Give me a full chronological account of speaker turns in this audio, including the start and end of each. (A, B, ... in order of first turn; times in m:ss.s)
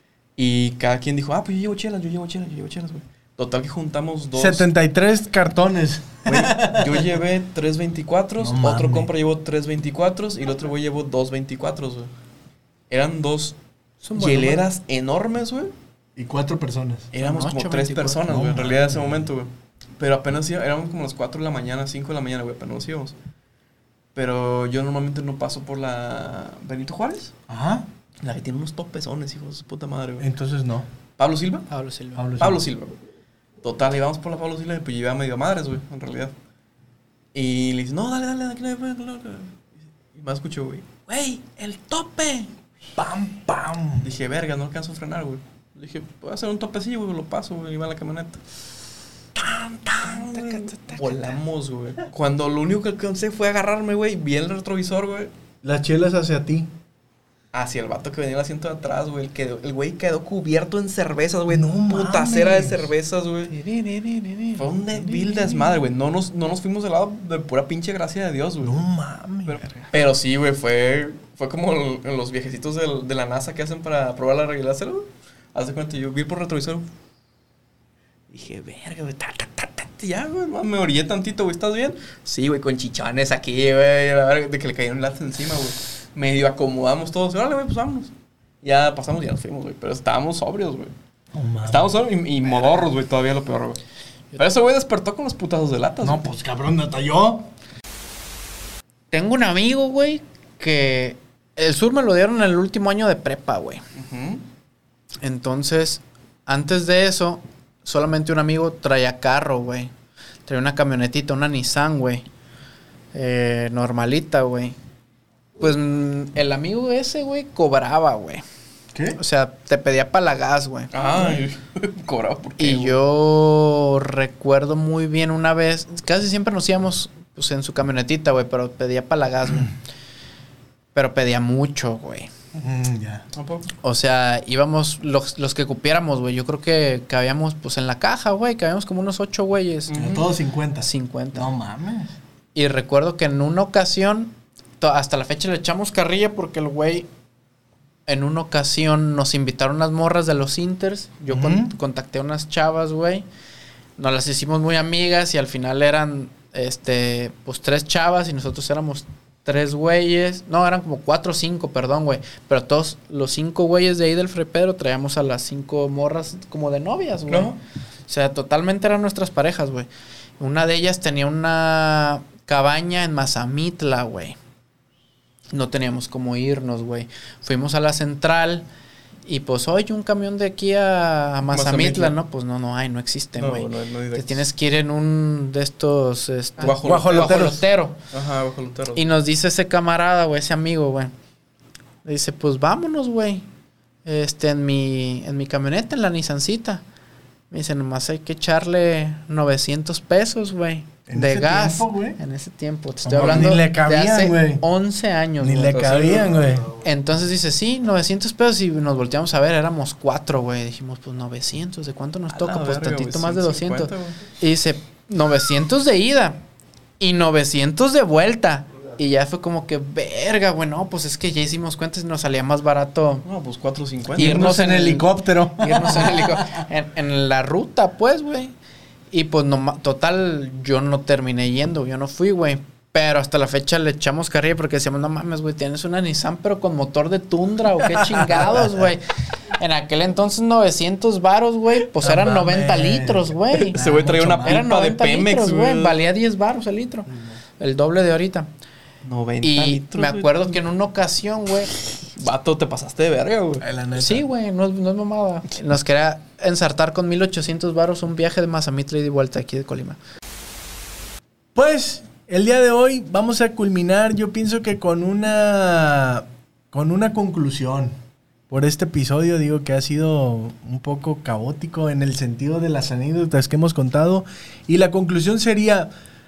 0:00.4-0:04.7 A
0:04.3-0:07.1 B
0:06.2-0:12.1 A
0:08.4-0:09.1 B
0:12.9-0:13.6 A
0:14.0-0:14.6 C
0:14.1-0:15.7 A
0:16.2-0:17.1 B
0:17.1-0:23.1 A
0:17.2-0:18.2 C
0:18.3-0:19.3 B
0:24.1-0:27.3 A
0:27.5-0:27.9 B
0:28.2-0:30.2 A
0:30.2-0:30.9 B
0:31.2-0:31.7 A
0:31.7-0:32.2 C
0:32.2-0:32.6 B
0:32.4-0:32.9 A
0:33.6-0:36.3 A
0:37.3-0:42.5 A
0:43.0-0:44.1 B
0:44.0-0:48.4 A
0:49.4-0:55.3 A
0:50.1-0:51.4 C
0:55.6-0:56.7 B
0:57.5-1:03.5 A
1:01.5-1:02.9 B
1:03.5-1:04.7 C
1:04.6-1:08.8 A
1:04.9-1:05.6 B
1:08.6-1:09.6 B
1:09.4-1:16.9 A
1:18.3-1:30.9 A
1:31.3-1:32.0 B
1:31.6-1:33.8 A
1:34.4-1:36.2 A
1:36.0-1:37.5 B
1:39.1-1:43.8 C
1:43.9-1:44.4 A
1:45.2-1:49.9 C
1:50.4-1:52.2 C
1:53.1-1:54.8 C
1:55.6-1:58.4 C
1:58.9-1:59.2 B
1:59.2-2:01.3 C
2:00.9-2:03.0 A
2:02.6-2:09.7 C
2:10.9-2:12.3 C
2:12.5-2:13.2 B
2:13.3-2:13.7 A
2:13.8-2:20.0 C
2:19.9-2:20.2 A
2:19.9-2:22.1 B
2:20.8-2:21.5 C
2:22.5-2:27.1 C
2:28.1-2:33.2 C
2:31.3-2:31.7 B
2:34.0-2:47.5 C
2:47.3-2:47.6 A
2:48.1-2:54.4 C
2:55.5-2:58.6 C
2:59.2-3:08.0 C
3:01.5-3:02.1 A
3:03.4-3:04.5 A
3:06.6-3:07.6 A
3:06.8-3:07.6 B
3:08.1-3:09.1 A
3:08.9-3:11.1 C
3:12.0-3:13.4 C
3:14.0-3:16.8 C
3:17.5-3:26.2 C
3:21.1-3:22.2 B
3:23.0-3:24.6 B
3:25.4-3:26.7 B
3:25.7-3:26.4 A
3:26.8-3:36.4 C
3:32.3-3:34.2 A
3:37.0-3:43.2 C
3:43.2-3:44.5 A
3:44.2-3:46.6 B
3:44.2-3:48.5 C
3:49.1-4:03.8 C
3:57.9-3:58.6 B
4:02.0-4:04.6 B
4:03.5-4:06.0 A
4:04.4-4:08.5 C
4:09.0-4:10.6 A
4:09.4-4:11.7 C
4:12.1-4:13.6 A
4:13.6-4:14.2 B
4:13.9-4:20.0 C
4:21.5-4:28.0 B
4:28.5-4:35.9 B